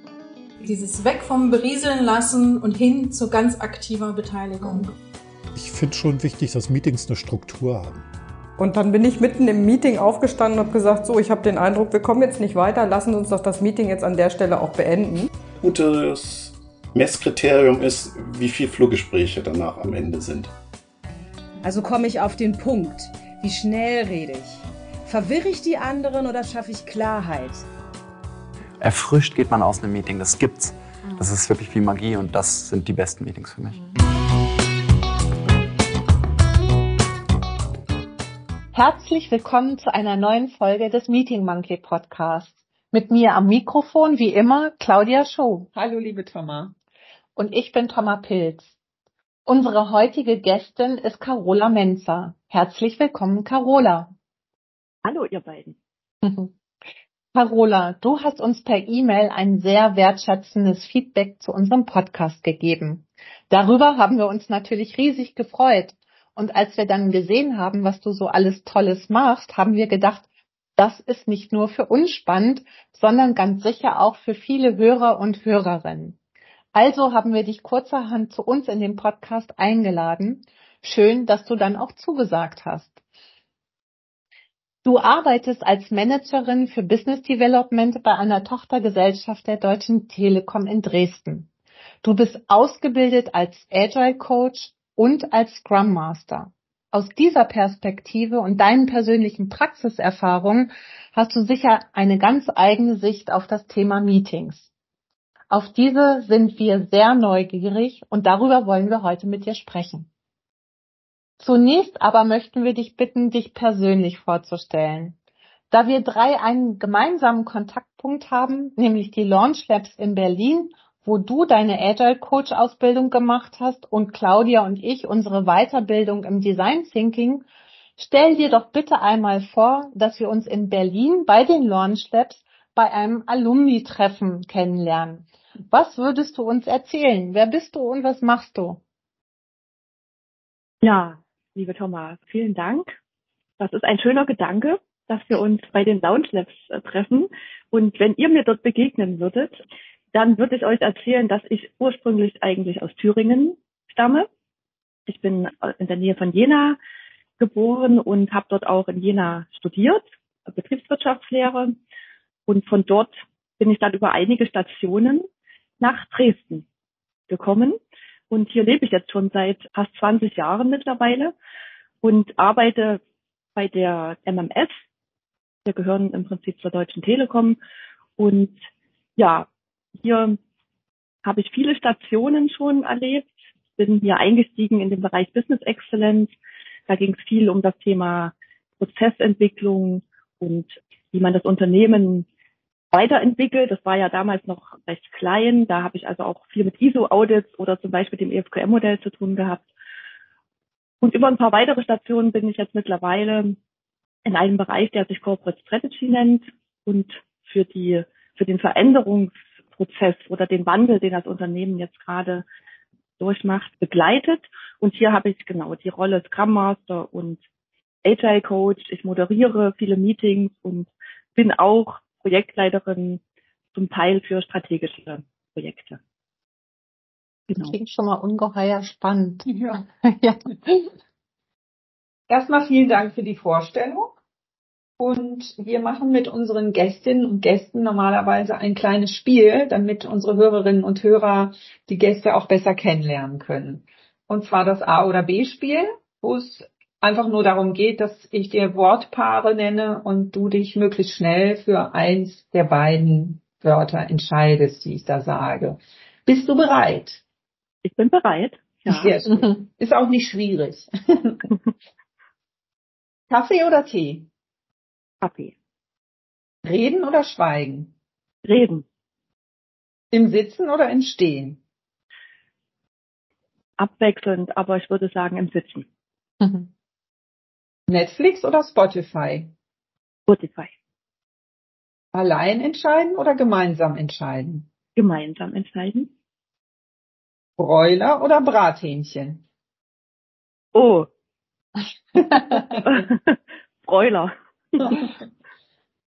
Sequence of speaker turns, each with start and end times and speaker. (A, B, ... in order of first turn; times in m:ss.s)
0:00.6-0:05.0 A
0:05.6-0:08.1 B
0:08.6-0:15.3 C
0:15.6-0:20.5 D
0:21.6-0:27.7 E
0:28.8-0:33.8 F
0:38.7-0:45.7 G
0:45.8-0:46.7 H
0:47.4-0:48.7 G
0:49.5-0:54.1 G
0:55.0-0:55.8 I
0:56.2-0:56.5 G
0:57.3-1:10.3 G
1:10.8-1:16.2 G
1:16.7-1:23.0 G
1:24.8-1:31.5 G
1:32.0-1:44.7 G
1:45.5-1:50.1 G
1:51.4-1:55.2 G
1:55.7-2:07.4 G
2:08.0-2:18.8 G
2:20.8-2:22.9 I
2:23.6-2:29.6 I
2:30.1-2:34.3 I
2:35.1-2:36.8 I
2:37.4-2:41.8 I
2:42.5-2:45.3 I
2:45.8-2:46.6 I
2:47.3-2:47.8 I
2:48.3-2:51.3 I
2:52.0-2:53.0 I
2:53.6-2:54.8 I
2:55.7-2:57.6 I
2:58.2-2:58.6 I
2:59.2-2:59.5 I
3:00.0-3:00.4 I
3:01.2-3:06.3 I
3:06.9-3:12.3 I
3:12.9-3:19.7 I
3:21.0-3:23.6 I
3:24.2-3:32.4 I
3:33.2-3:37.4 I
3:38.0-3:43.2 I
3:43.8-3:46.0 I
3:47.5-3:50.9 G
3:49.4-3:49.8 H
3:52.3-3:54.2 H
3:55.0-4:17.2 H
4:17.8-4:19.1 I
4:18.9-4:21.4 H
4:23.3-4:24.3 H
4:25.2-4:25.5 I
4:26.6-4:27.9 H
4:28.4-4:28.8 I
4:30.1-4:31.6 H
4:33.8-4:35.9 I
4:36.4-4:36.7 G
4:37.9-4:39.5 H
4:40.3-4:40.7 I
4:42.1-4:44.7 H
4:45.0-4:46.1 I
4:47.6-4:49.4 H
4:50.7-4:51.1 I
4:52.6-4:55.0 I